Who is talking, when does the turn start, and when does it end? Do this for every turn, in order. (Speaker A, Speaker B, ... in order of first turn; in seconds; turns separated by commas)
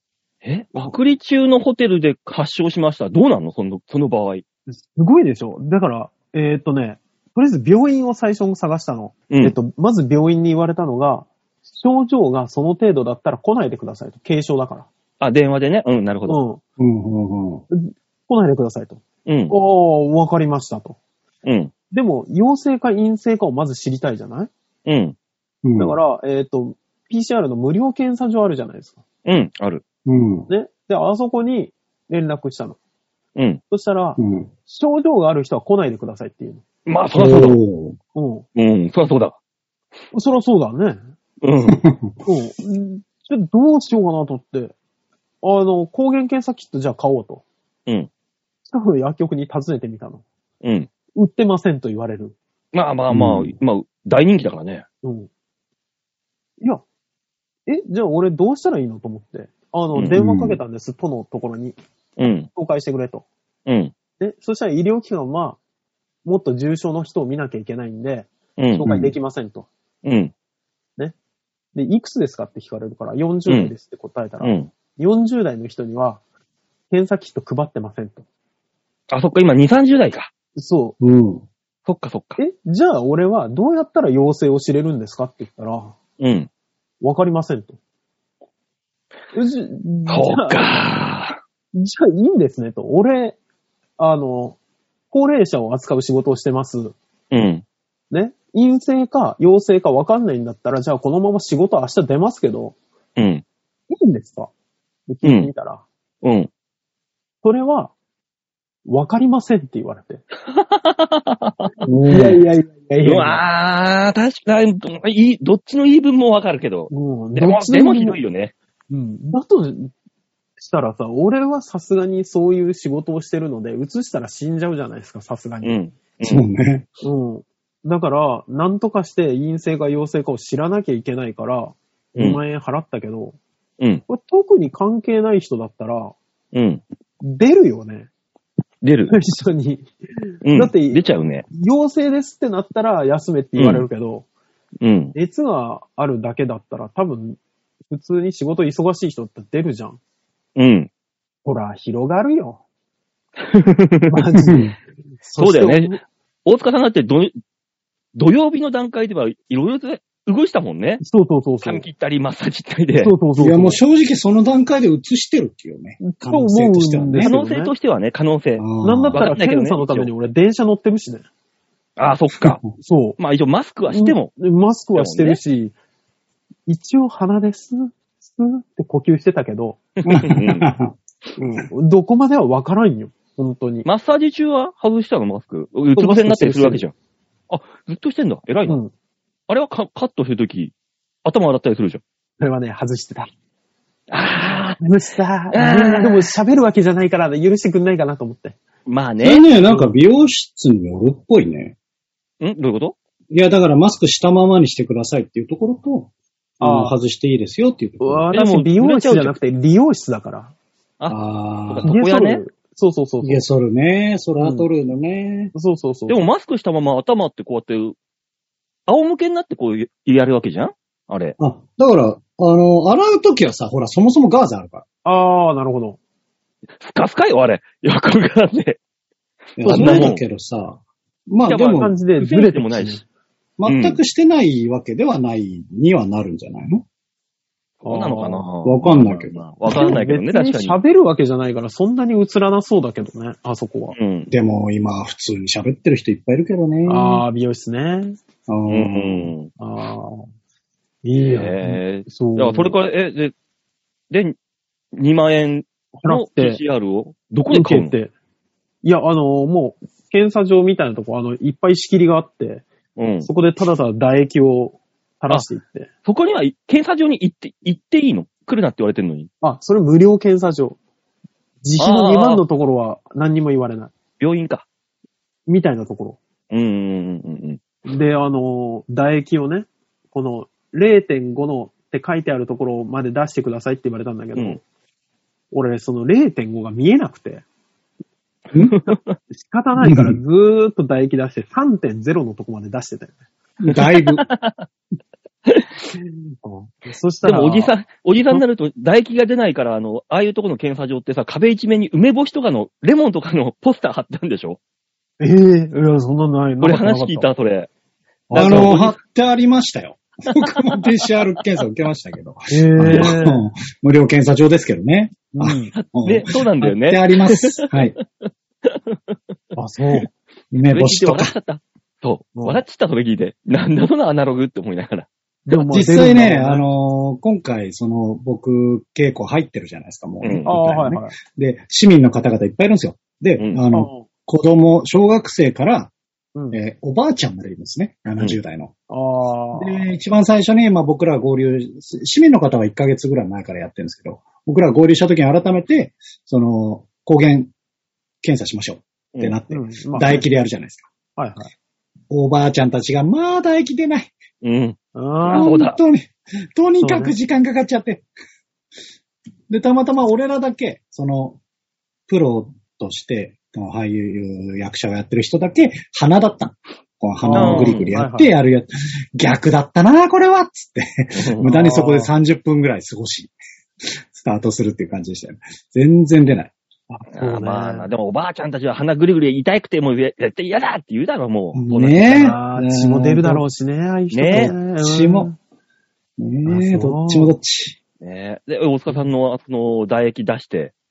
Speaker A: 0.4-4.4, Speaker B: 4.9-14.9, Speaker A: 9.3-9.6, Speaker A: 15.2-16.4, Speaker B: 16.3-16.6, Speaker C: 16.8-17.6, Speaker B: 17.7-21.0, Speaker A: 19.2-19.6, Speaker A: 21.4-21.7, Speaker B: 21.9-24.5, Speaker A: 24.9-25.1, Speaker C: 25.6-25.9, Speaker B: 25.8-29.0, Speaker A: 29.2-29.8, Speaker C: 30.1-30.5, Speaker B: 30.5-32.8, Speaker A: 33.4-33.6, Speaker B: 33.7-36.6, Speaker C: 34.2-34.5, Speaker A: 36.9-37.6, Speaker C: 37.1-38.0, Speaker B: 38.1-38.5, Speaker A: 38.5-39.4, Speaker B: 40.1-41.0, Speaker A: 41.4-41.8, Speaker C: 41.7-42.2, Speaker B: 42.2-44.7, Speaker B: 45.4-47.4, Speaker B: 48.7-50.2, Speaker A: 50.6-50.9, Speaker B: 51.1-52.4, Speaker A: 52.7-54.8, Speaker C: 53.1-53.5, Speaker B: 55.0-55.3, Speaker B: 57.7-61.8, Speaker C: 60.1-60.6, Speaker A: 62.2-62.5, Speaker B: 62.5-63.3, Speaker A: 63.6-63.9, Speaker B: 64.2-65.6, Speaker B: 66.2-69.7, Speaker A: 68.6-68.9, Speaker C: 68.8-69.1, Speaker A: 70.0-70.3, Speaker B: 71.7-76.2, Speaker A: 73.5-73.7, Speaker A: 74.4-74.7, Speaker B: 76.9-78.2, Speaker A: 79.1-80.3, Speaker B: 80.6-81.0, Speaker C: 81.0-81.4, Speaker A: 81.8-82.4, Speaker B: 82.4-86.0, Speaker A: 86.2-86.5, Speaker B: 87.0-87.8, Speaker B: 89.3-90.6, Speaker A: 90.1-91.4, Speaker B: 91.7-93.4, Speaker B: 94.0-94.6, Speaker B: 95.1-97.0, Speaker A: 97.3-97.6, Speaker B: 98.1-102.8, Speaker A: 103.2-103.4, Speaker B: 103.9-104.5, Speaker B: 105.1-105.8, Speaker A: 105.2-105.5, Speaker A: 106.2-106.5, Speaker B: 107.4-107.9, Speaker B: 108.8-110.2, Speaker A: 110.5-111.7, Speaker C: 111.8-112.4, Speaker B: 112.1-113.4, Speaker A: 113.0-118.5, Speaker B: 116.9-118.2, Speaker B: 118.9-119.9, Speaker B: 120.6-125.8, Speaker A: 125.6-126.4, Speaker C: 126.2-126.9, Speaker B: 127.0-133.3, Speaker A: 132.2-132.4, Speaker B: 134.1-136.1, Speaker A: 136.5-136.8, Speaker B: 137.2-138.1, Speaker A: 138.8-139.2, Speaker B: 139.1-139.9, Speaker A: 140.4-141.4, Speaker B: 140.4-144.2, Speaker A: 143.6-143.9, Speaker A: 144.8-145.1, Speaker B: 145.1-150.0, Speaker A: 150.6-150.9, Speaker B: 151.4-152.6, Speaker A: 153.4-154.2, Speaker B: 154.1-154.7, Speaker C: 154.5-154.7, Speaker B: 155.2-156.0, Speaker A: 155.4-157.3, Speaker A: 158.1-161.0, Speaker B: 161.0-161.8, Speaker A: 161.6-163.1, Speaker B: 162.9-163.8, Speaker C: 163.4-167.3, Speaker B: 166.0-167.7, Speaker A: 167.2-170.1, Speaker C: 168.6-169.3, Speaker B: 168.8-171.2, Speaker A: 172.0-172.6, Speaker C: 172.4-172.6, Speaker B: 172.8-173.2, Speaker A: 173.2-174.3, Speaker B: 173.9-175.7, Speaker A: 174.9-175.4, Speaker B: 176.7-179.8, Speaker A: 180.0-180.7, Speaker C: 180.1-180.9, Speaker B: 181.4-183.9, Speaker A: 183.8-186.9, Speaker B: 185.9-186.8, Speaker A: 187.5-188.8, Speaker B: 188.7-188.9, Speaker A: 189.5-190.7, Speaker A: 191.2-192.0, Speaker B: 192.4-193.3, Speaker A: 194.1-194.8, Speaker B: 194.8-198.6, Speaker A: 195.5-196.3, Speaker A: 198.8-199.4, Speaker C: 199.2-201.7, Speaker B: 199.7-199.9, Speaker A: 202.4-202.9, Speaker C: 203.3-208.2, Speaker B: 206.6-206.9, Speaker B: 208.0-210.5, Speaker A: 208.3-209.3, Speaker A: 211.0-212.4, Speaker C: 211.1-211.9, Speaker B: 211.8-213.4, Speaker C: 213.2-215.5, Speaker B: 214.4-214.7, Speaker B: 215.5-216.2, Speaker A: 216.1-217.9, Speaker A: 218.9-221.3, Speaker C: 221.4-224.8, Speaker B: 225.0-226.0, Speaker A: 226.8-228.8, Speaker C: 229.6-231.9, Speaker B: 229.6-230.1, Speaker A: 229.6-230.2, Speaker A: 231.4-233.0, Speaker B: 231.7-233.0, Speaker C: 233.6-236.8, Speaker A: 233.7-234.0, Speaker B: 237.8-238.4, Speaker A: 237.8-240.8, Speaker C: 238.6-240.0, Speaker B: 239.7-243.9, Speaker A: 243.9-244.3, Speaker C: 244.3-247.2, Speaker B: 246.8-248.2, Speaker C: 248.5-249.3, Speaker A: 248.7-249.5, Speaker B: 249.6-250.2, Speaker B: 251.0-252.8, Speaker A: 251.2-253.3, Speaker A: 254.1-254.3, Speaker A: 254.9-257.9, Speaker B: 256.0-256.6, Speaker B: 257.5-258.1, Speaker B: 258.8-262.6, Speaker A: 262.9-263.3, Speaker B: 263.2-265.9, Speaker A: 266.0-269.3, Speaker B: 269.4-270.8, Speaker B: 271.6-273.9, Speaker A: 271.8-272.4, Speaker A: 274.2-274.6, Speaker B: 275.5-276.2, Speaker A: 276.5-277.6, Speaker B: 277.9-284.6, Speaker B: 285.5-287.4, Speaker A: 288.6-289.2, Speaker B: 289.3-293.1, Speaker C: 289.8-290.2, Speaker C: 293.6-294.2, Speaker A: 293.7-294.7, Speaker B: 296.4-297.8, Speaker A: 297.2-304.6, Speaker B: 305.2-307.3, Speaker A: 306.6-307.7, Speaker C: 308.3-317.9, Speaker A: 308.3-309.0, Speaker B: 308.4-308.7, Speaker B: 312.5-313.4, Speaker B: 315.4-315.7, Speaker A: 315.7-319.1, Speaker B: 319.5-320.1, Speaker C: 320.5-321.3, Speaker A: 320.7-325.1, Speaker B: 322.4-322.6, Speaker B: 325.5-326.6, Speaker C: 325.7-335.9, Speaker A: 330.2-330.5, Speaker B: 330.4-331.1, Speaker B: 333.7-334.1, Speaker C: 336.5-338.7, Speaker B: 338.9-339.9, Speaker C: 339.6-347.5, Speaker C: 348.2-350.9, Speaker B: 349.5-350.2, Speaker B: 351.1-351.5, Speaker C: 352.1-354.1, Speaker A: 354.4-355.8, Speaker B: 354.9-355.6, Speaker C: 355.3-358.0, Speaker B: 356.8-357.1, Speaker C: 359.5-361.4, Speaker C: 362.1-376.5, Speaker B: 367.2-368.3, Speaker A: 367.3-367.9, Speaker A: 371.2-371.5, Speaker B: 371.4-372.1, Speaker B: 376.9-377.9, Speaker A: 377.1-382.4, Speaker C: 381.5-383.4, Speaker B: 382.1-385.4, Speaker A: 384.1-384.5, Speaker C: 384.4-385.3, Speaker C: 386.2-387.8, Speaker B: 386.4-387.3, Speaker A: 388.0-390.7